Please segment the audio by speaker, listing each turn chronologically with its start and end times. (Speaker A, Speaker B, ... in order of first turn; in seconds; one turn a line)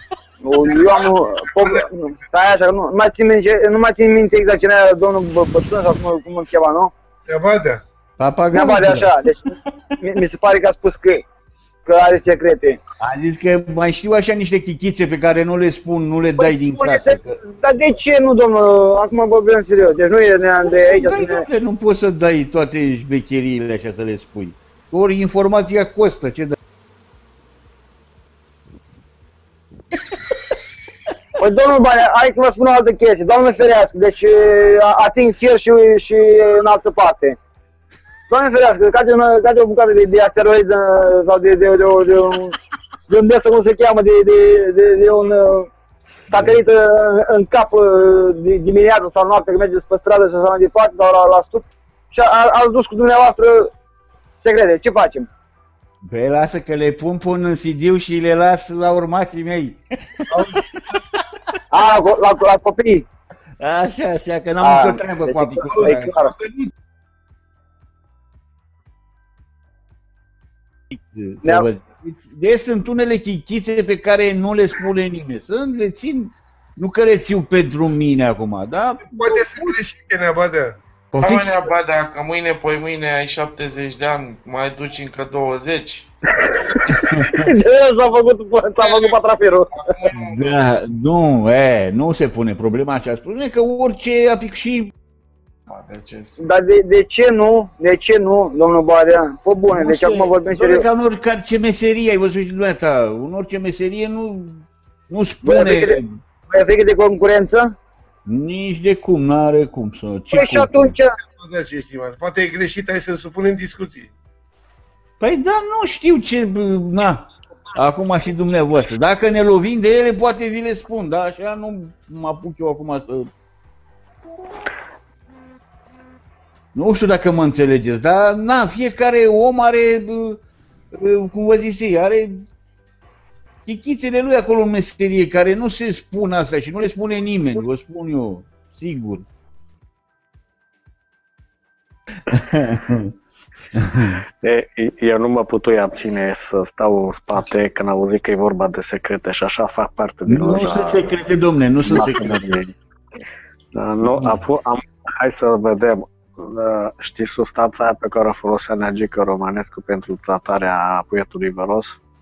Speaker A: 0.4-6.9
Speaker B: 7.3-7.8
Speaker C: 8.2-9.0
Speaker A: 8.5-9.5
Speaker A: 10.0-11.2
Speaker A: 11.8-12.8
Speaker C: 13.0-17.3
Speaker A: 16.4-21.5
Speaker C: 20.9-26.6
Speaker A: 31.4-37.4
Speaker A: 38.3-42.5
Speaker A: 43.1-45.7
Speaker A: 46.3-53.7
Speaker A: 54.4-55.3
Speaker C: 56.1-59.8
Speaker B: 60.3-60.6
Speaker A: 61.7-63.0
Speaker C: 63.6-66.1
Speaker A: 64.6-66.3
Speaker B: 65.6-66.7
Speaker C: 70.9-79.7
Speaker A: 71.4-71.7
Speaker B: 79.0-80.8
Speaker C: 81.1-81.6
Speaker D: 81.2-86.1
Speaker A: 87.3-89.7
Speaker D: 88.8-89.2
Speaker D: 89.7-90.6
Speaker C: 90.1-94.9
Speaker D: 95.7-96.4
Speaker A: 96.4-100.8
Speaker C: 99.7-106.0
Speaker A: 105.4-107.7
Speaker C: 108.2-110.9
Speaker A: 110.3-111.1
Speaker B: 111.4-114.1
Speaker C: 115.2-117.2
Speaker C: 117.8-123.3
Speaker C: 126.7-130.4
Speaker C: 130.9-132.4
Speaker C: 133.6-139.2
Speaker C: 142.3-143.1
Speaker C: 143.7-144.2
Speaker E: 144.4-151.2
Speaker C: 150.2-152.5
Speaker E: 151.8-152.6
Speaker E: 153.7-162.0